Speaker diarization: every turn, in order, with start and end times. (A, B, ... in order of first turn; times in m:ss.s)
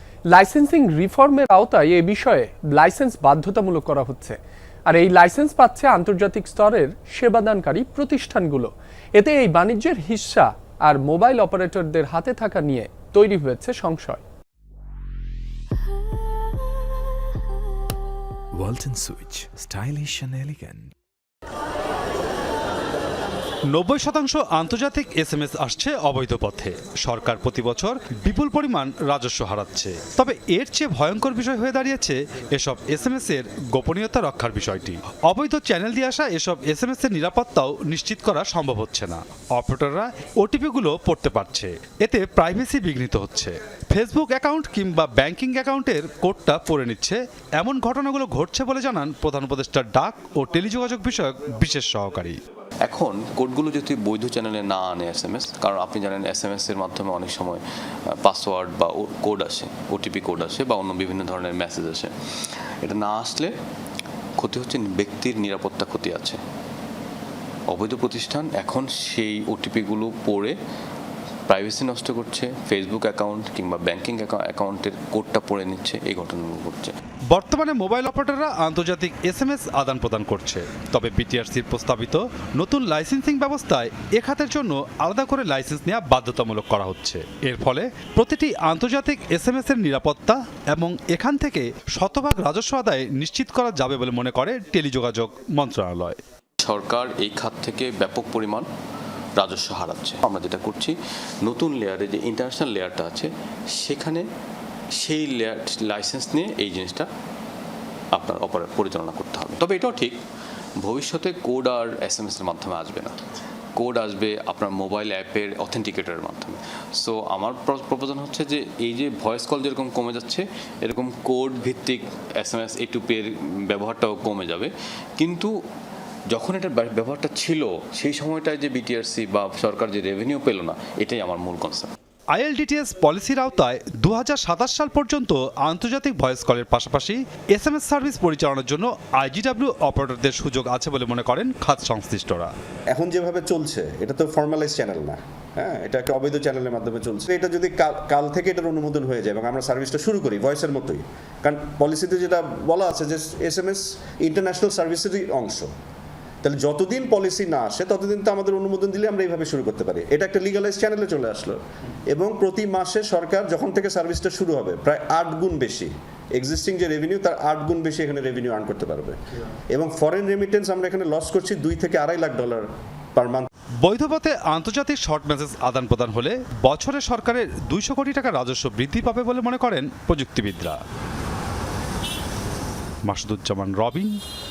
0:00.3-0:14.2 A
0:18.5-0:20.9 B
0:23.7-0:52.4 C
0:52.8-0:57.6 D
0:58.2-1:02.1 D
1:02.8-1:03.5 D
1:04.4-1:06.4 D
1:07.7-1:10.5 D
1:11.5-1:16.9 D
1:17.3-1:36.2 C
1:36.6-1:38.7 D
1:39.4-1:44.2 D
1:45.0-1:47.1 D
1:48.1-1:50.2 D
1:50.8-1:53.2 D
1:53.7-2:05.5 D
2:06.3-2:11.9 D
2:12.3-2:22.5 C
2:22.9-2:35.7 E
2:36.4-2:49.2 E
2:49.7-2:53.5 E
2:53.8-3:00.8 C
3:03.0-3:04.2 C